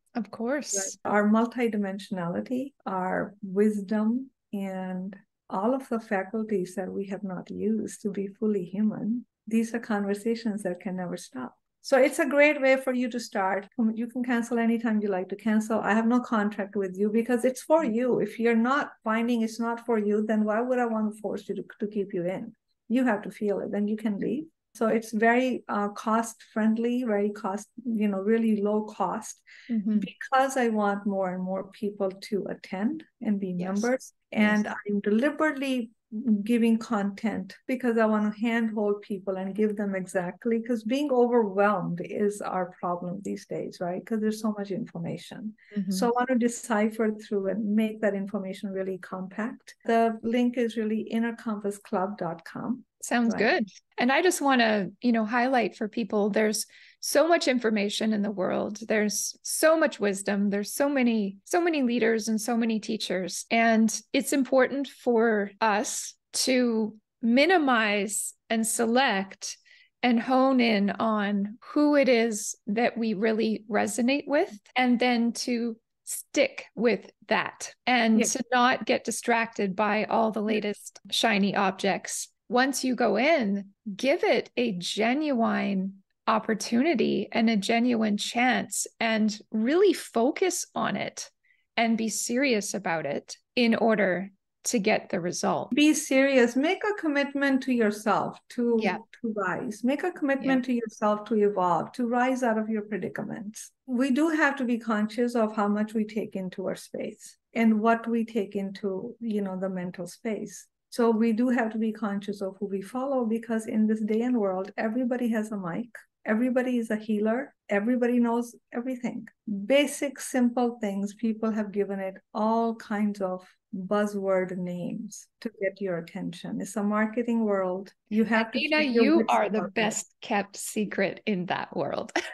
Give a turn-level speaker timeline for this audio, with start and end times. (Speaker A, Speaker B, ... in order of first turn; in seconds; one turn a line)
Speaker A: 0.1-0.9
Speaker B: 0.7-29.4
Speaker A: 29.7-30.1
Speaker B: 30.0-53.5
Speaker A: 33.6-33.9
Speaker A: 45.7-46.1
Speaker A: 53.0-95.7
Speaker B: 95.7-130.0
Speaker A: 98.8-99.0
Speaker A: 128.3-132.1